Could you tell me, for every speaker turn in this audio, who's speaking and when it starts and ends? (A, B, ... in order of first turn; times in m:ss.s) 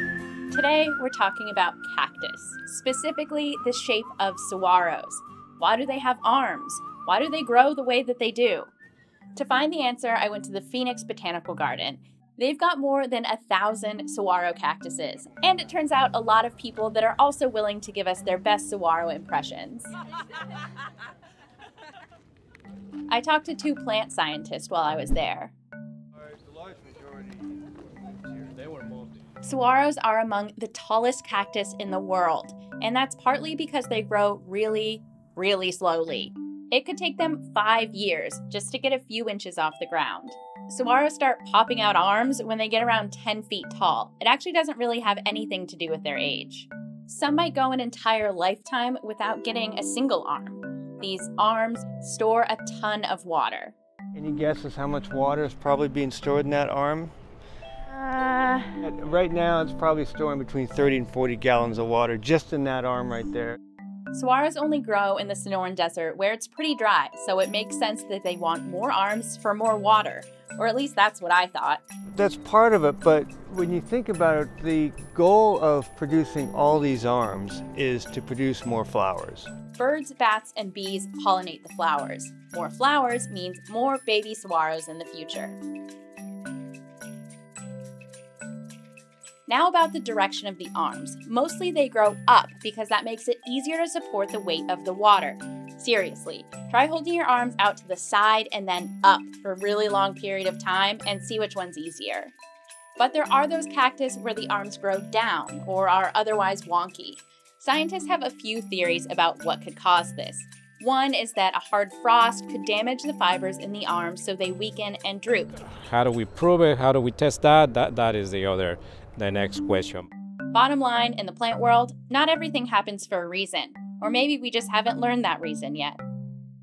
0:00.5-0:08.7 A
0:09.4-0:19.9 A
0:23.1-0:25.5 A
0:26.3-0:27.5 B
0:29.4-0:53.8 A
0:54.1-0:57.1 B
0:57.9-0:58.7 A
0:58.8-1:03.5 B
1:04.1-1:11.8 A
1:12.2-1:19.5 B
1:19.7-1:25.6 A
1:29.5-1:42.3 A
1:43.0-1:55.5 A
1:55.7-2:00.0 C
2:00.5-2:06.0 A